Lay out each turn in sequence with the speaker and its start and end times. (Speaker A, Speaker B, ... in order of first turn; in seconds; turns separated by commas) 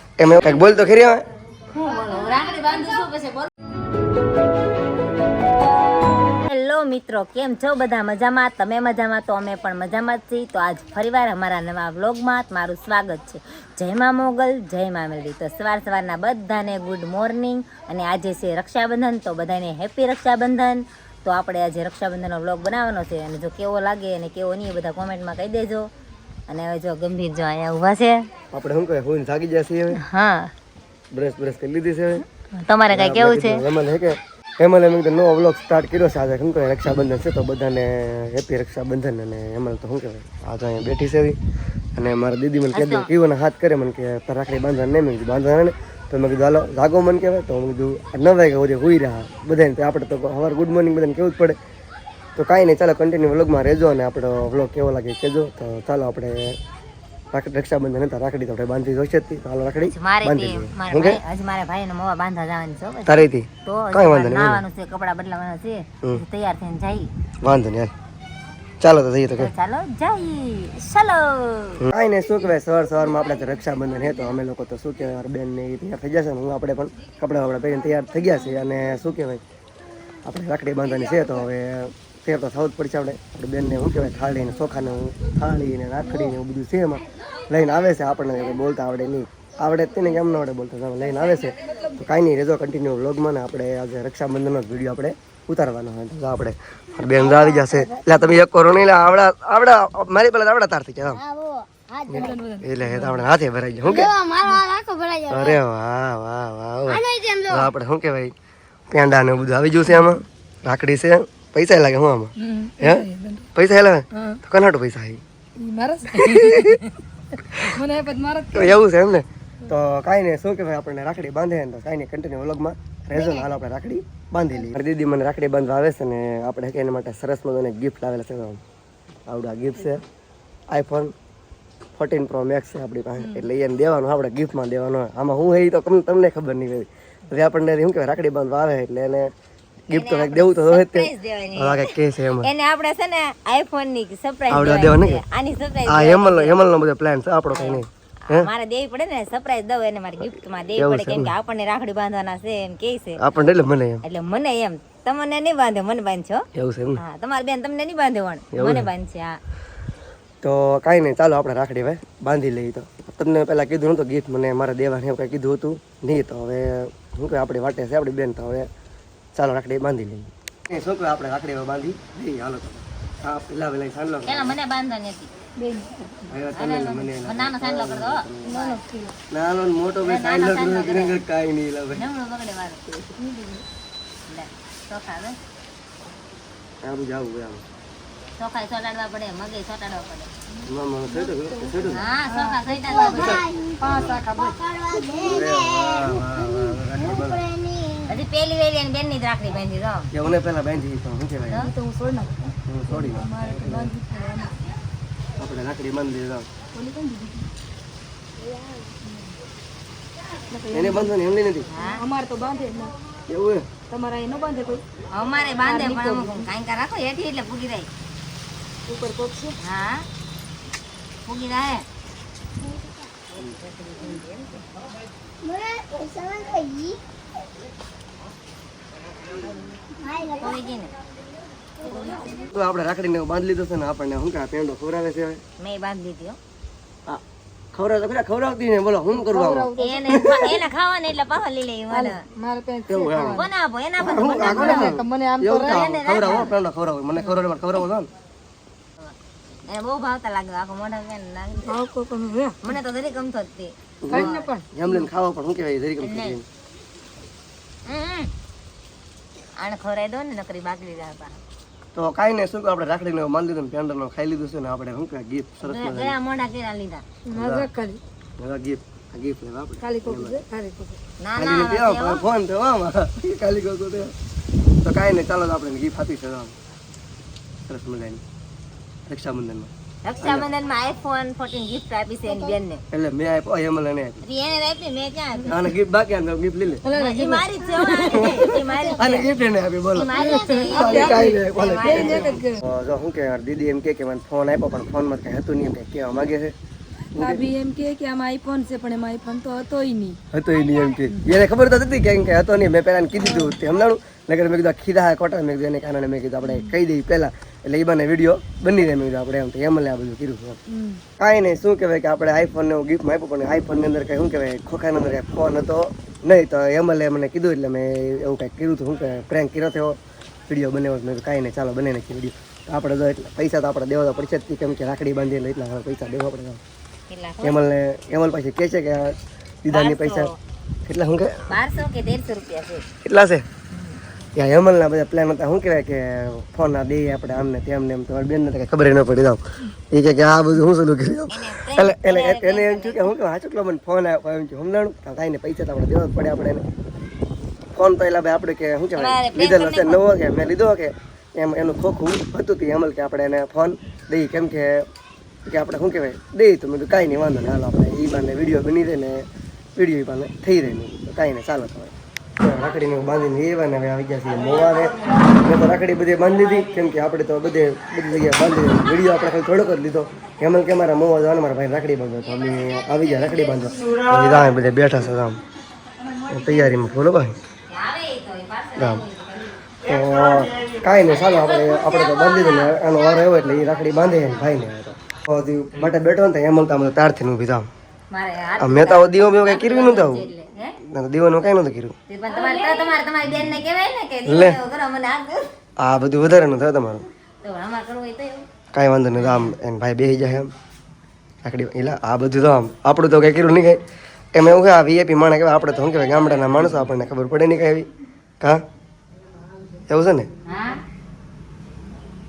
Speaker A: 0.2-1.2, Speaker B: 1.7-3.5, Speaker B: 6.4-25.9, Speaker B: 26.5-28.3, Speaker A: 28.5-30.0, Speaker B: 29.9-30.5, Speaker A: 31.1-32.3, Speaker B: 32.5-33.6, Speaker A: 32.9-41.4, Speaker A: 42.0-51.6, Speaker B: 42.7-43.1, Speaker A: 52.4-56.6, Speaker A: 57.3-61.2, Speaker B: 59.9-67.1, Speaker A: 63.1-64.6, Speaker A: 67.4-67.9, Speaker A: 68.8-69.5, Speaker B: 69.3-71.8, Speaker A: 71.8-79.4, Speaker A: 80.3-101.2, Speaker C: 91.2-92.0, Speaker B: 101.1-102.4, Speaker A: 102.1-104.1, Speaker C: 102.1-103.3, Speaker B: 103.8-105.6, Speaker C: 104.3-104.6, Speaker A: 105.3-108.3, Speaker B: 106.9-107.7, Speaker A: 108.9-115.2, Speaker C: 112.4-113.5, Speaker C: 114.1-114.4, Speaker C: 115.6-117.0, Speaker A: 116.1-116.8, Speaker A: 117.4-117.8, Speaker C: 117.5-118.8, Speaker A: 118.5-128.6, Speaker A: 129.3-130.0, Speaker A: 130.7-131.1, Speaker A: 132.0-139.3, Speaker A: 139.9-142.5, Speaker B: 139.9-146.6, Speaker A: 144.5-145.2, Speaker A: 145.9-148.5, Speaker B: 147.5-153.2, Speaker A: 150.8-151.3, Speaker A: 153.2-154.0, Speaker B: 154.0-159.4, Speaker A: 156.6-157.0, Speaker A: 158.5-158.9, Speaker A: 160.4-168.7, Speaker A: 169.3-174.6, Speaker B: 174.2-175.3, Speaker C: 175.6-176.3, Speaker A: 176.3-178.6, Speaker B: 176.5-178.8, Speaker C: 178.4-179.2, Speaker A: 179.3-182.1, Speaker B: 180.0-181.2, Speaker B: 181.9-182.8, Speaker C: 183.2-183.7, Speaker B: 184.3-185.4, Speaker A: 186.8-187.6, Speaker B: 188.4-190.3, Speaker C: 190.6-194.6, Speaker A: 190.6-192.1, Speaker B: 192.0-200.1, Speaker A: 193.1-193.4, Speaker A: 193.9-194.2, Speaker A: 195.2-197.5, Speaker A: 200.1-201.7, Speaker C: 201.5-204.6, Speaker A: 202.7-203.9, Speaker A: 205.4-206.5, Speaker C: 206.8-207.5, Speaker C: 208.4-209.3, Speaker C: 210.5-211.1, Speaker A: 210.7-211.7, Speaker B: 211.7-212.0, Speaker C: 211.8-212.9, Speaker A: 213.3-213.7, Speaker C: 213.9-214.8, Speaker B: 215.1-217.9, Speaker C: 215.6-216.5, Speaker C: 218.9-219.6, Speaker B: 219.6-220.1, Speaker B: 221.3-221.8, Speaker C: 224.0-224.6, Speaker B: 225.4-227.0, Speaker B: 230.0-230.9, Speaker B: 231.8-232.4, Speaker C: 231.9-232.5, Speaker A: 232.5-235.4, Speaker B: 235.6-236.4, Speaker A: 237.7-240.4, Speaker C: 239.1-240.6, Speaker B: 239.8-242.2, Speaker C: 241.9-243.5, Speaker A: 242.9-243.5, Speaker B: 243.3-244.9, Speaker A: 244.0-248.1, Speaker C: 244.4-245.8, Speaker B: 245.7-246.5, Speaker B: 249.7-251.8, Speaker C: 251.7-252.6, Speaker B: 252.6-253.7, Speaker A: 254.0-256.4, Speaker C: 254.1-255.1, Speaker B: 256.0-256.4, Speaker B: 257.9-258.3, Speaker B: 259.6-261.4, Speaker A: 261.9-266.2, Speaker B: 265.6-267.1, Speaker C: 267.3-268.0, Speaker A: 267.3-267.7, Speaker A: 268.4-270.4, Speaker C: 269.8-271.0, Speaker B: 271.2-272.2, Speaker A: 271.4-274.1, Speaker A: 274.8-276.6, Speaker A: 277.7-278.2, Speaker A: 279.1-280.5, Speaker B: 280.0-282.8, Speaker A: 282.9-284.2, Speaker B: 284.2-285.6, Speaker A: 285.5-286.8, Speaker C: 286.8-289.1, Speaker B: 286.9-289.3, Speaker A: 288.1-296.5, Speaker B: 289.9-292.4, Speaker C: 290.1-292.6, Speaker A: 297.1-297.4, Speaker C: 297.2-300.2, Speaker A: 300.3-310.6, Speaker C: 303.2-303.6, Speaker C: 310.7-311.0, Speaker A: 311.2-320.0, Speaker A: 320.5-326.6, Speaker B: 327.1-327.6, Speaker A: 327.4-330.3, Speaker B: 329.7-330.4, Speaker A: 330.9-331.5, Speaker B: 331.5-332.9, Speaker A: 333.0-333.5, Speaker B: 333.7-334.0, Speaker A: 334.4-346.6, Speaker B: 341.3-343.1, Speaker A: 347.8-354.9, Speaker B: 349.0-350.1, Speaker A: 355.5-375.4, Speaker B: 372.9-373.6, Speaker A: 376.3-377.4, Speaker C: 376.4-376.7, Speaker B: 377.7-379.6, Speaker A: 378.8-379.0, Speaker A: 379.8-387.7, Speaker B: 381.0-384.4, Speaker B: 388.1-390.8, Speaker A: 388.6-390.3, Speaker A: 390.8-392.0, Speaker B: 392.1-395.5, Speaker A: 394.2-394.6, Speaker A: 395.8-397.0, Speaker B: 397.4-398.5, Speaker A: 398.7-400.5, Speaker A: 401.4-403.8, Speaker A: 404.4-407.9, Speaker A: 409.9-410.3, Speaker B: 410.5-410.8